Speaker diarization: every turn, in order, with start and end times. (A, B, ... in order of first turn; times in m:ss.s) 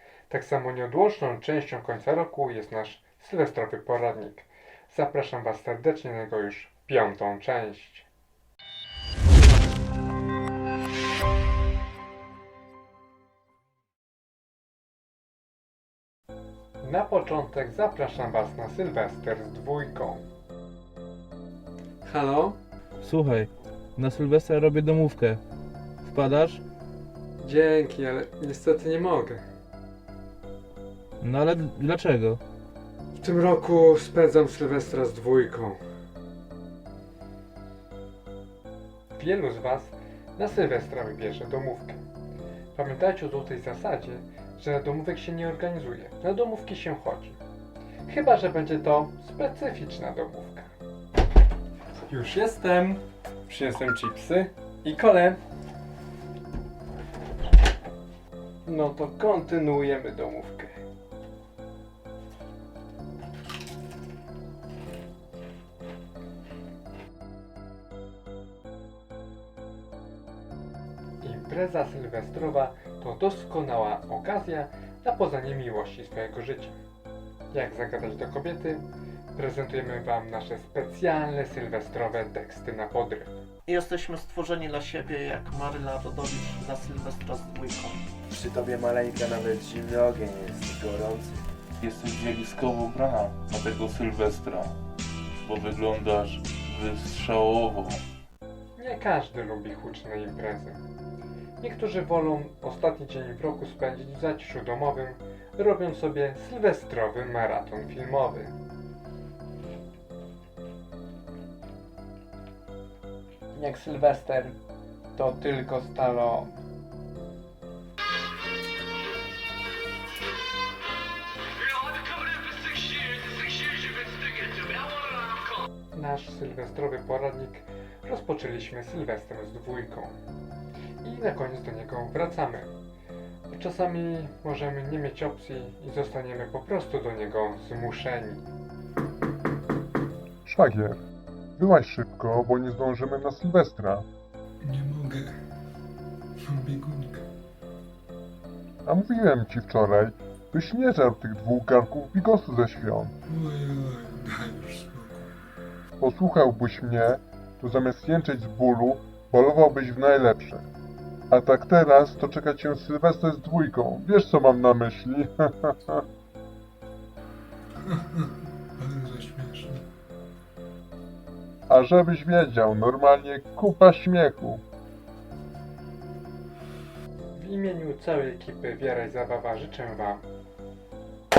0:00.3-0:08.1 A
0:16.8-0:20.2 A
0:22.0-0:22.6 A
0:23.0-0:25.4 B
0:26.0-0:26.6 B
0:27.4-0:29.4 A
0:31.2-0:32.4 B
0:33.2-0:35.8 A
0:39.1-0:42.0 A
0:42.7-0:47.4 A
0:48.1-0:50.7 A
0:52.1-0:55.4 A
0:58.6-1:00.8 A
1:11.2-1:16.8 A
1:17.5-1:23.4 A
1:23.7-1:28.0 C
1:28.3-1:31.4 D
1:31.8-1:34.7 E
1:35.4-1:38.0 E
1:38.8-1:40.8 A
1:41.6-1:48.5 A
1:53.5-1:54.6 A
1:55.2-1:56.5 A
2:02.2-2:02.5 C
2:03.0-2:03.4 C
2:05.9-2:10.2 A
2:11.0-2:12.7 A
2:13.5-2:18.4 A
2:20.4-2:21.0 F
2:21.6-2:24.0 F
2:24.6-2:25.4 G
2:26.4-2:27.2 G
2:28.8-2:33.1 F
2:33.2-2:35.3 G
2:36.0-2:40.7 F
2:41.3-2:46.0 F
2:47.8-2:49.8 G
2:51.7-2:54.6 F
2:57.3-3:00.2 A